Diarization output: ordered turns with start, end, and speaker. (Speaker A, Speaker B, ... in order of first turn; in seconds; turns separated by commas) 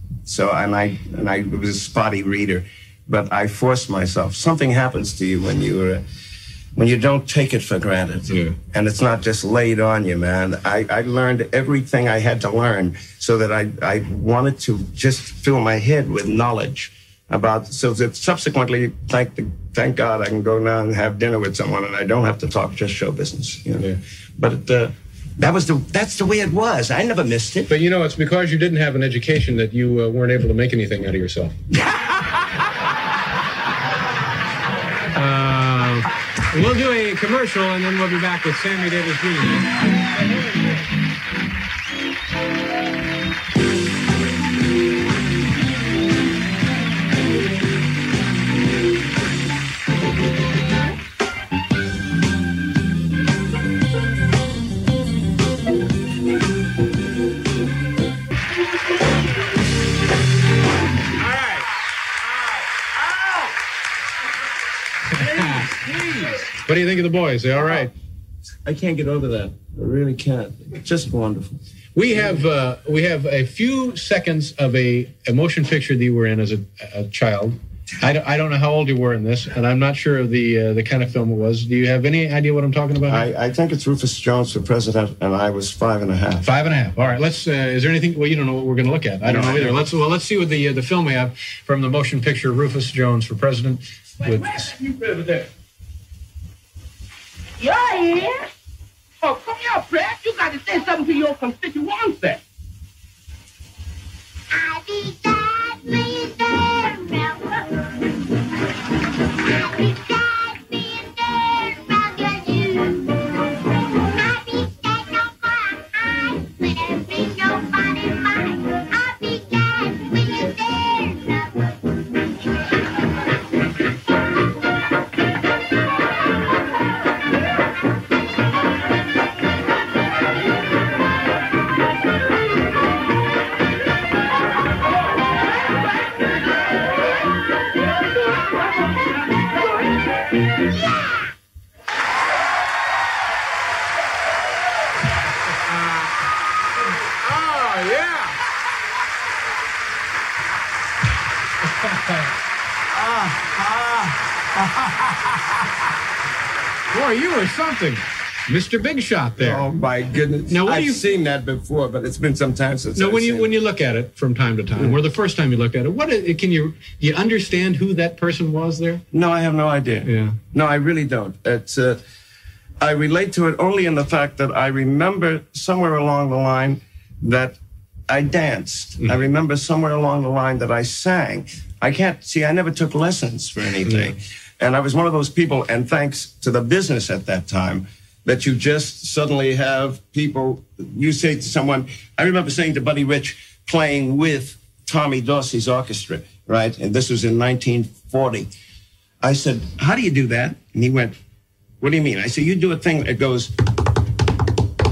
Speaker A: 0.2-6.0, Speaker A: 6.8-27.7, Speaker B: 8.3-8.5, Speaker B: 27.7-31.6, Speaker B: 35.1-39.7, Speaker B: 61.2-61.6, Speaker B: 65.1-67.9, Speaker A: 68.7-71.6, Speaker B: 71.9-83.3, Speaker A: 83.1-86.5, Speaker B: 86.4-94.7, Speaker A: 89.2-89.8, Speaker C: 94.9-95.2, Speaker C: 97.6-98.5, Speaker C: 99.2-102.4, Speaker B: 145.6-146.1, Speaker B: 147.2-148.3, Speaker B: 151.8-152.3, Speaker A: 153.0-153.5, Speaker B: 154.6-155.3, Speaker B: 156.9-159.6, Speaker A: 159.4-163.5, Speaker B: 160.5-161.0, Speaker B: 162.9-169.0, Speaker A: 169.1-172.0, Speaker B: 170.0-170.3, Speaker A: 172.8-177.6, Speaker A: 178.1-198.5, Speaker B: 183.8-184.1, Speaker A: 199.2-201.2, Speaker A: 201.8-203.5